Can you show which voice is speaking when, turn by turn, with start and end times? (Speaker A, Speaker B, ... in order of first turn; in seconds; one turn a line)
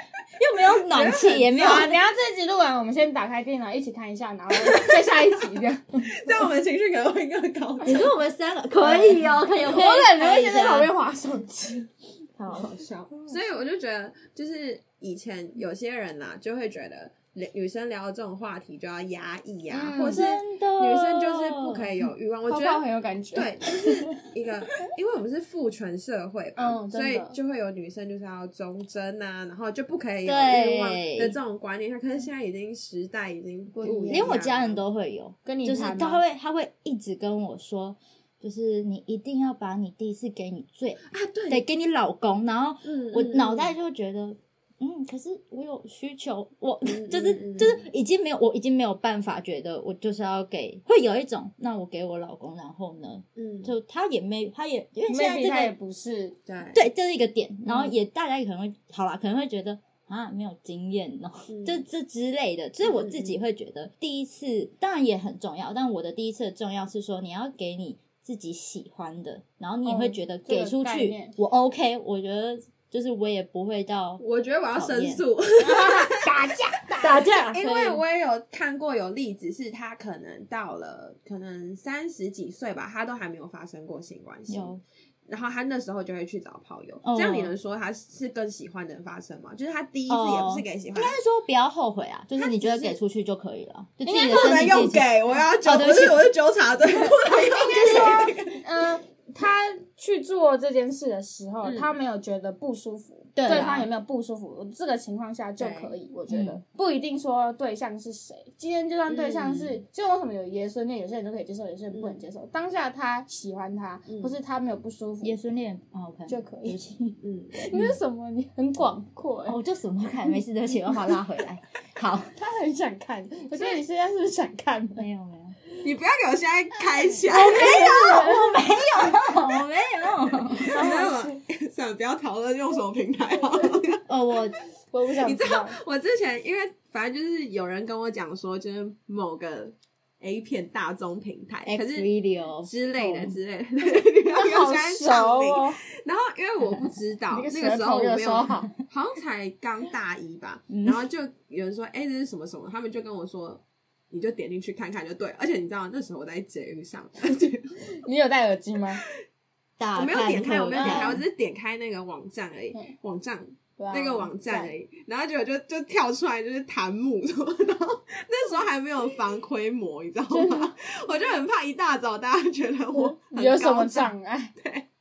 Speaker A: 0.4-1.9
Speaker B: 0.8-1.8
Speaker C: 1.5-6.3
Speaker B: 4.6-5.3
Speaker B: 6.0-8.1
Speaker A: 7.8-10.9
Speaker C: 8.8-11.9
Speaker A: 12.4-12.7
Speaker B: 12.5-34.8
Speaker C: 19.7-20.2
Speaker A: 20.1-21.9
Speaker C: 22.5-24.1
Speaker C: 26.6-27.4
Speaker A: 30.2-31.4
Speaker C: 33.7-34.3
Speaker A: 34.1-55.7
Speaker C: 35.4-36.2
Speaker B: 41.1-41.6
Speaker B: 42.8-43.7
Speaker B: 46.8-47.8
Speaker B: 53.4-53.7
Speaker C: 55.1-56.4
Speaker B: 56.5-56.8
Speaker A: 56.7-74.2
Speaker B: 61.5-61.8
Speaker B: 62.8-63.4
Speaker C: 69.8-71.3
Speaker B: 74.2-76.4
Speaker A: 74.7-75.2
Speaker C: 75.6-77.6
Speaker B: 77.0-84.8
Speaker A: 77.0-78.0
Speaker A: 84.5-84.8
Speaker B: 85.3-91.2
Speaker A: 87.0-87.5
Speaker A: 90.1-95.1
Speaker C: 92.5-92.9
Speaker C: 94.0-94.6
Speaker B: 94.2-98.6
Speaker A: 95.6-96.3
Speaker C: 97.0-115.4
Speaker B: 101.6-101.9
Speaker A: 103.3-103.9
Speaker B: 105.6-105.9
Speaker A: 106.3-106.6
Speaker B: 109.1-109.7
Speaker B: 111.9-112.2
Speaker B: 114.1-114.3
Speaker A: 115.2-117.1
Speaker C: 116.3-117.0
Speaker B: 117.2-117.7
Speaker C: 117.5-119.6
Speaker A: 119.5-122.3
Speaker C: 122.3-125.0
Speaker A: 125.0-125.6
Speaker B: 125.8-128.3
Speaker A: 127.3-131.0
Speaker C: 127.5-128.6
Speaker B: 130.5-134.1
Speaker C: 130.7-131.4
Speaker A: 134.1-134.6
Speaker C: 134.9-135.8
Speaker B: 135.2-142.1
Speaker A: 141.7-143.3
Speaker B: 142.6-157.7
Speaker C: 144.3-145.8
Speaker C: 147.3-148.7
Speaker A: 150.7-151.0
Speaker C: 158.0-159.0
Speaker A: 159.8-161.2
Speaker B: 159.9-174.8
Speaker C: 160.8-161.2
Speaker C: 163.8-164.7
Speaker C: 170.3-170.7
Speaker C: 172.9-174.5